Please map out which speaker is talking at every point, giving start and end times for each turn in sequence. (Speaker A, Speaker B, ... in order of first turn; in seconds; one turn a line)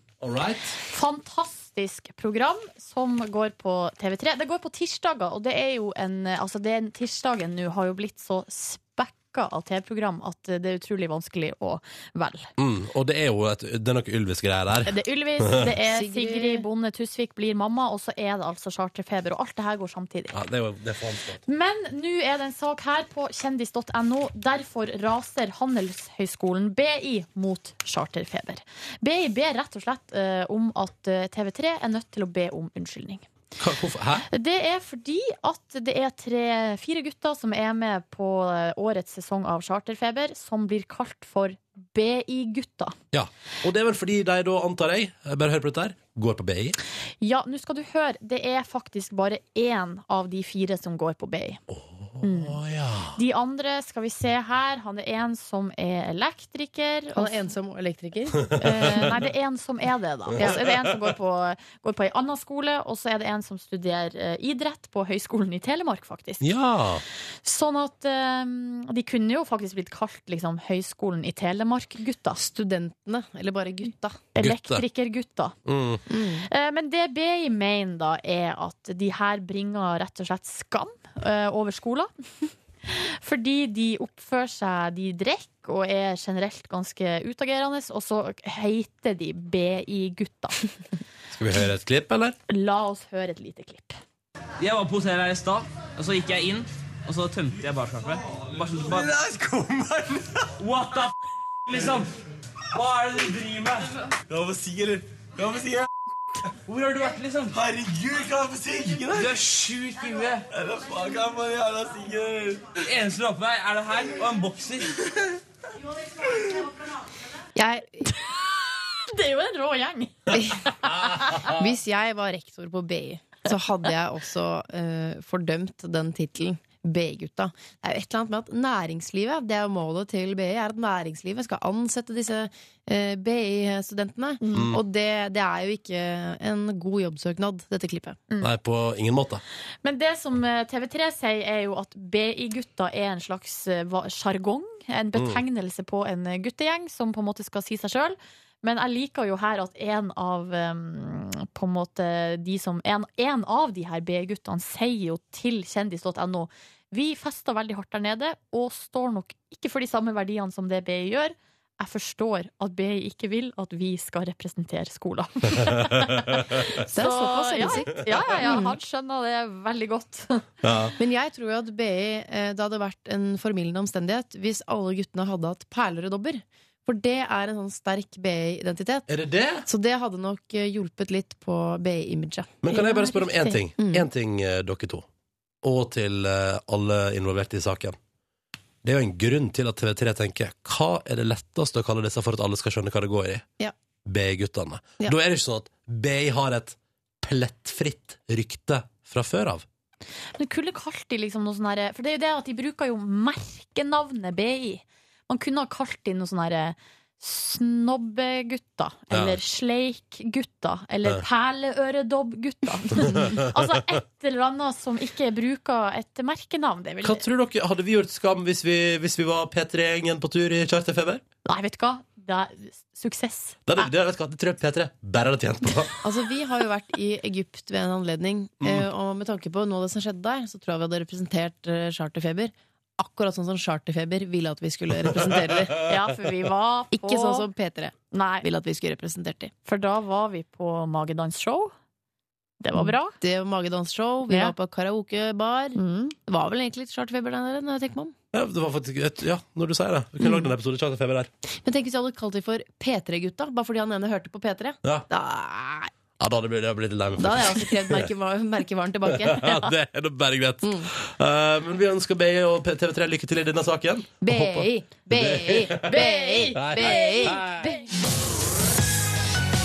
Speaker A: 0.2-0.8
Speaker B: 0.9-12.5
Speaker A: 12.6-15.6
Speaker B: 14.9-20.4
Speaker C: 15.9-16.6
Speaker A: 20.3-21.4
Speaker B: 21.5-33.3
Speaker A: 33.6-34.3
Speaker B: 34.3-43.0
Speaker A: 43.1-46.8
Speaker B: 47.2-51.6
Speaker A: 51.7-53.2
Speaker B: 52.2-52.6
Speaker B: 53.2-57.4
Speaker C: 57.1-59.1
Speaker A: 58.5-59.1
Speaker B: 58.6-66.5
Speaker A: 60.3-60.6
Speaker C: 60.4-60.6
Speaker A: 66.4-67.0
Speaker B: 67.4-72.4
Speaker C: 72.4-74.2
Speaker B: 74.4-75.6
Speaker A: 74.4-74.8
Speaker A: 75.7-76.0
Speaker C: 76.1-76.5
Speaker B: 76.5-82.1
Speaker B: 82.8-90.6
Speaker A: 91.3-92.4
Speaker B: 92.5-94.0
Speaker D: 94.6-100.0
Speaker D: 100.6-101.1
Speaker D: 101.7-102.1
Speaker D: 102.7-105.9
Speaker D: 106.7-115.3
Speaker C: 117.5-118.1
Speaker B: 119.0-121.5
Speaker C: 120.3-120.8
Speaker A: 121.2-121.5
Speaker C: 121.4-138.2
Speaker B: 134.4-134.7
Speaker A: 134.5-134.8
Speaker A: 138.4-139.4
Speaker B: 139.8-170.5
Speaker A: 145.2-145.4
Speaker C: 166.9-168.8
Speaker A: 170.6-170.9
Speaker C: 171.0-179.1
Speaker A: 179.1-179.7
Speaker C: 179.7-184.1
Speaker A: 182.6-185.1
Speaker A: 185.6-188.0
Speaker A: 188.8-193.4
Speaker A: 194.1-199.7
Speaker B: 200.4-217.2
Speaker A: 209.1-209.4
Speaker A: 213.0-213.7
Speaker A: 217.0-221.2
Speaker B: 221.4-223.9
Speaker A: 223.7-225.9
Speaker C: 226.0-235.8
Speaker A: 228.6-228.9
Speaker B: 235.8-237.5
Speaker C: 236.9-239.5
Speaker B: 238.1-238.5
Speaker B: 239.7-241.7
Speaker B: 242.6-243.2
Speaker C: 242.7-248.1
Speaker B: 244.3-244.5
Speaker B: 245.8-246.2
Speaker A: 248.3-251.3
Speaker C: 250.2-250.5
Speaker C: 251.6-255.9
Speaker A: 256.2-258.1
Speaker C: 257.2-259.7
Speaker A: 259.1-266.0
Speaker C: 260.6-260.9
Speaker C: 264.2-267.7
Speaker B: 265.8-267.7
Speaker A: 266.5-267.7